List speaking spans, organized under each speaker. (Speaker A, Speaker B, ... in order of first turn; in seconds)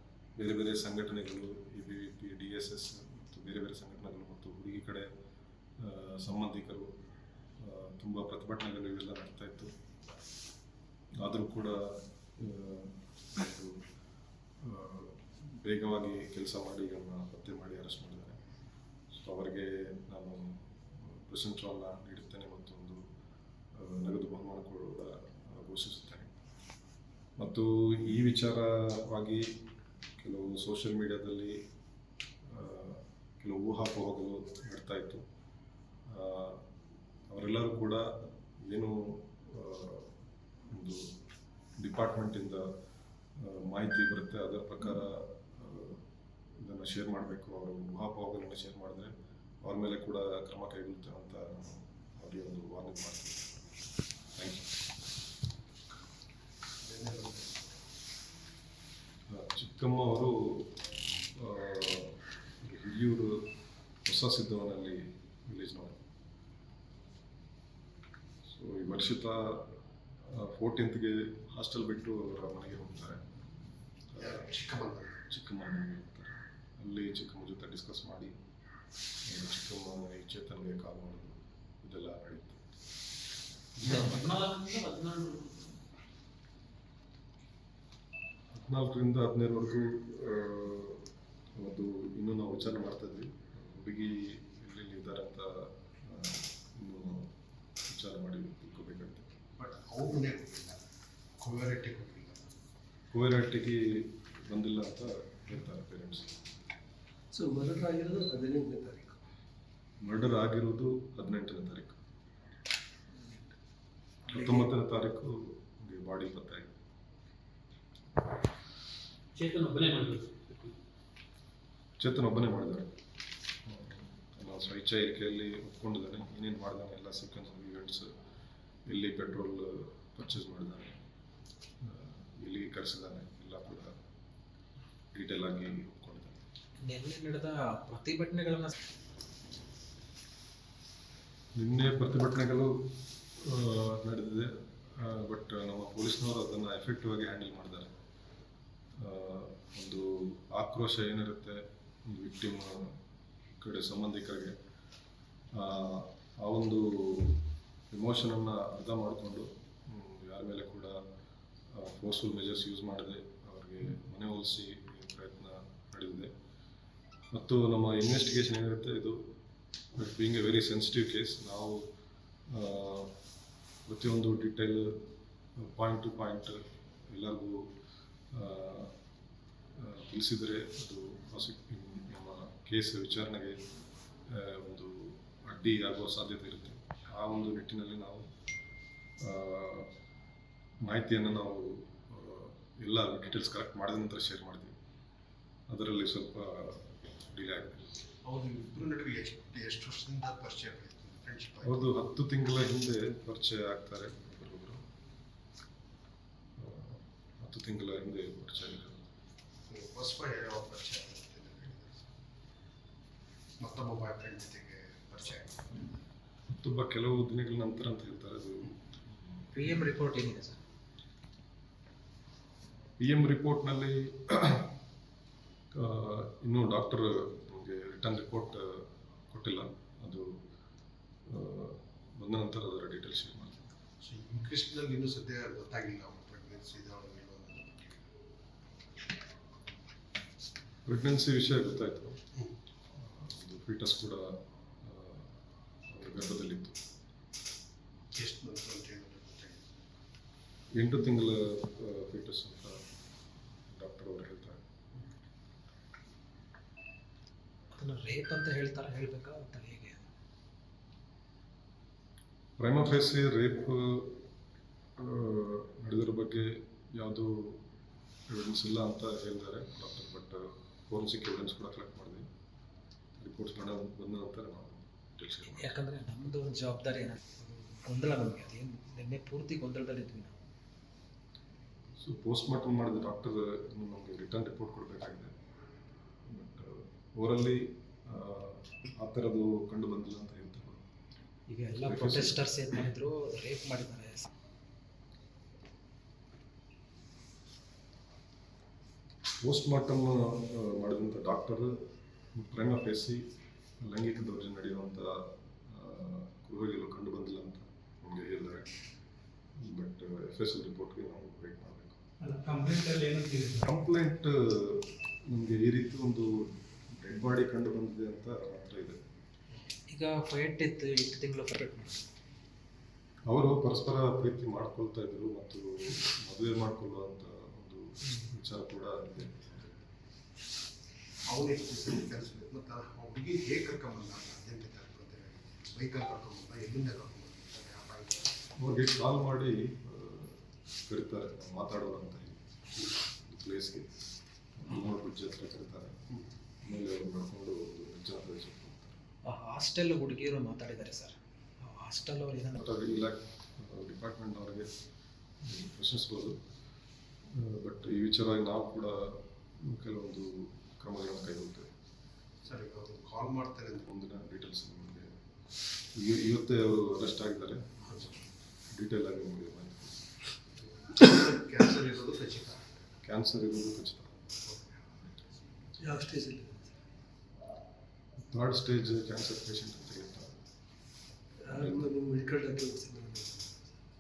Speaker A: 0.4-5.1, 5.8-6.9, 7.6-9.7, 11.2-13.8, 14.6-18.4, 19.1-23.0, 23.7-26.3, 27.4-29.6, 30.2-31.6, 32.5-35.2, 36.1-36.7, 37.3-40.1, 40.7-41.1, 41.8-42.7, 43.4-46.0, 46.6-53.6, 54.4-54.7, 59.3-60.8, 61.3-63.5, 64.0-66.0, 68.5-69.7, 70.2-73.3, 74.1-74.4, 75.3-78.4, 79.2-82.6, 83.8-84.2, 88.5-97.3, 97.9-99.3, 103.1-106.3, 110.0-112.0, 114.3-116.7, 122.0-123.0, 123.7-128.1, 128.9-131.0, 131.8-134.0, 135.1-136.4, 141.6-147.9, 149.0-153.0, 153.6-154.6, 155.5-161.0, 161.7-166.3, 167.3-169.3, 169.9-171.9, 172.5-173.1, 173.9-175.1, 175.6-177.8, 178.3-178.9, 179.8-183.6, 184.3-188.3, 189.2-189.9, 190.8-194.8, 195.7-197.9, 201.6-204.8, 206.6-209.1, 216.5-218.8, 223.0-224.7, 225.7-230.4, 231.3-233.6, 240.8-242.2, 243.0-245.3, 245.9-246.8, 250.7-252.9, 253.7-254.6, 262.6-264.2, 265.0-267.6, 268.3-272.3, 273.2-275.8, 282.0-285.3, 286.3-290.8, 291.8-292.4, 299.4-301.8, 302.3-303.3, 303.8-308.7, 309.6-312.0, 313.6-319.0, 323.3-329.8, 338.6-342.4, 343.1-343.9, 344.6-346.0, 346.6-349.0, 352.5-354.7, 355.4-356.4, 357.3-361.7, 363.8-365.1, 365.9-370.1, 373.0-374.3, 378.2-380.3, 381.5-381.9
Speaker B: 56.8-57.8, 74.2-75.2, 99.6-100.8, 101.4-102.5, 198.2-201.9, 209.7-212.1, 213.6-215.8, 234.0-238.0, 248.1-249.7, 331.3-338.4, 362.4-363.9, 370.6-372.8, 374.5-374.7
Speaker C: 83.8-85.7, 136.8-138.7, 219.5-220.6, 257.7-260.0, 275.5-280.3, 291.5-294.3, 319.9-322.0, 349.2-352.6
Speaker D: 107.3-109.2, 375.8-376.7, 381.4-383.6
Speaker E: 119.3-120.7, 312.2-313.7